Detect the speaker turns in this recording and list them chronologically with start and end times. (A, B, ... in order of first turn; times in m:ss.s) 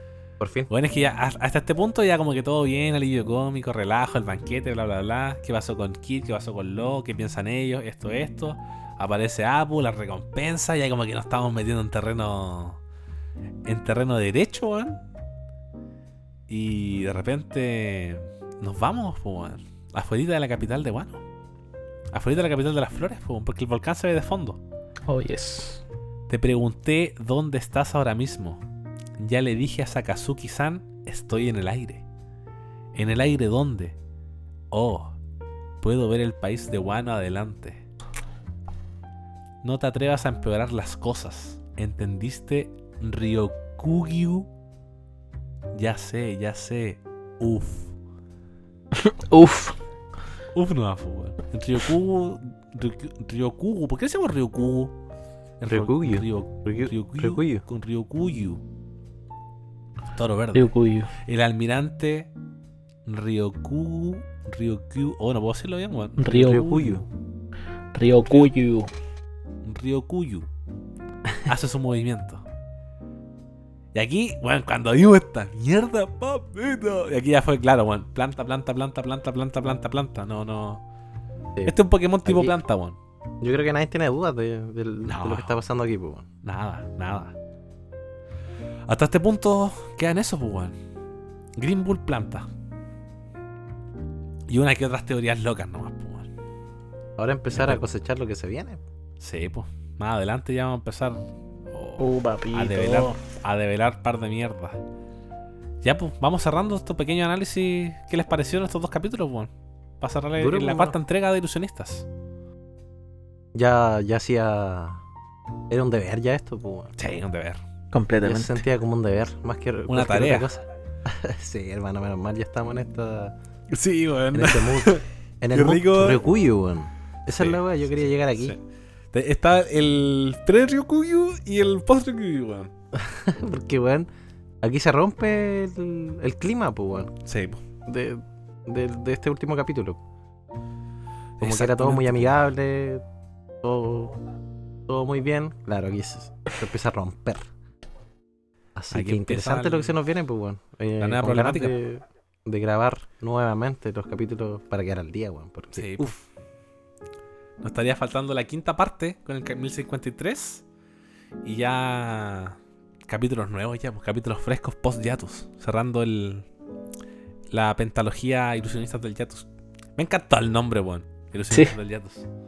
0:00.4-0:00.7 A
0:00.7-0:12.8 B
0:13.7-0:15.0 B
0:16.5-0:21.2 B
0:22.1-0:24.6 B
0:25.1-0:25.8 C
0:26.3-0:28.6 B
0:29.2-0:32.0 B
0:32.9-0:34.0 B
0:34.7-0:35.1 B
0:35.8-0:37.8 B
0:39.6-0:44.5 B
0:45.7-0:47.9 B
0:49.0-0:49.8 C
0:50.6-0:54.9 B
0:55.6-0:58.6 B
0:55.7-0:57.6 A
1:00.1-1:02.3 B
1:00.5-1:01.1 C
1:03.0-1:06.6 B
1:06.2-1:07.0 C
1:06.3-1:07.1 A
1:07.9-1:08.9 C
1:08.2-1:08.5 B
1:09.6-1:10.5 B
1:11.4-1:12.4 B
1:13.9-1:20.8 B
1:21.6-1:22.5 A
1:21.6-1:23.0 B
1:23.4-1:26.3 A
1:25.0-1:25.6 B
1:26.4-1:27.3 B
1:28.9-1:30.8 B
1:31.6-1:32.5 B
1:34.5-1:36.3 B
1:37.2-1:38.8 A
1:37.5-1:37.8 B
1:39.2-1:44.8 B
1:42.0-1:43.2 C
1:45.8-1:49.5 B
1:50.0-1:52.1 B
1:50.4-1:51.0 A
1:53.5-1:55.0 A
1:55.7-1:56.9 A
1:57.0-1:57.6 B
1:57.9-1:58.6 C
1:58.2-2:03.4 A
1:59.9-2:00.5 B
2:03.7-2:06.2 B
2:04.3-2:08.6 A
2:07.3-2:07.6 B
2:08.3-2:08.6 B
2:09.1-2:12.7 B
2:13.0-2:14.1 A
2:14.6-2:17.1 A
2:17.2-2:17.6 B
2:17.9-2:20.0 A
2:21.4-2:22.4 B
2:21.4-2:23.0 A
2:23.6-2:24.2 A
2:24.9-2:27.5 A
2:28.8-2:36.1 A
2:28.9-2:30.0 B
2:31.0-2:31.7 B
2:35.8-2:36.2 B
2:37.6-2:40.6 B
2:41.4-2:42.6 B
2:43.1-2:46.4 B
2:47.5-2:52.3 B